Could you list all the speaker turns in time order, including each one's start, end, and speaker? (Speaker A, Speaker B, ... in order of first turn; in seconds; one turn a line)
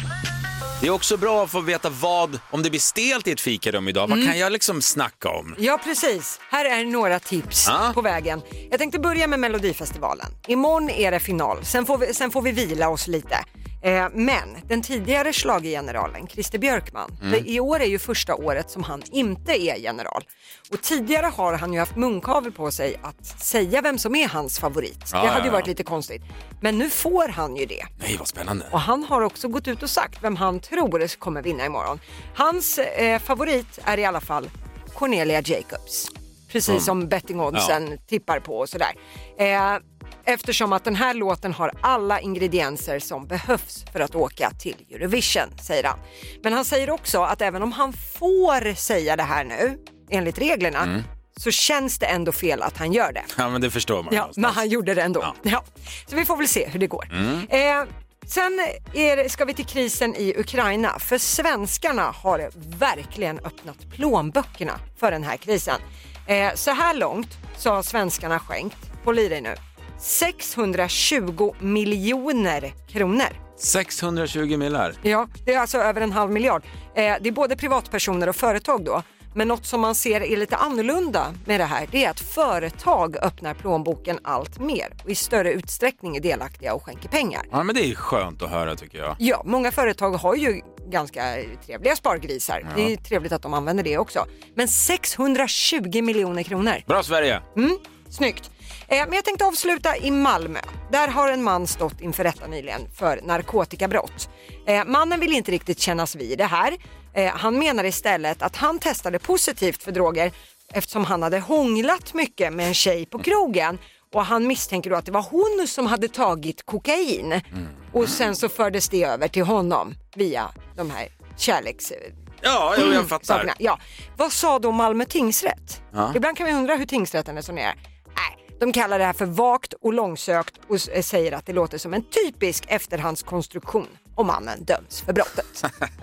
Speaker A: 0.8-5.6
Speaker B: 4.1-4.3
Speaker B: 5.6-27.9
Speaker A: 7.7-8.0
Speaker A: 25.1-25.7
Speaker A: 28.0-28.7
Speaker B: 28.7-53.3
Speaker A: 53.3-54.6
Speaker B: 54.1-73.4
Speaker A: 57.1-57.5
Speaker A: 73.6-75.0
Speaker B: 75.0-87.5
Speaker A: 87.5-89.2
Speaker B: 89.2-96.9
Speaker A: 92.7-92.9
Speaker A: 96.9-97.4
Speaker B: 97.5-122.1
Speaker A: 122.4-123.5
Speaker B: 122.8-135.7
Speaker A: 125.9-126.2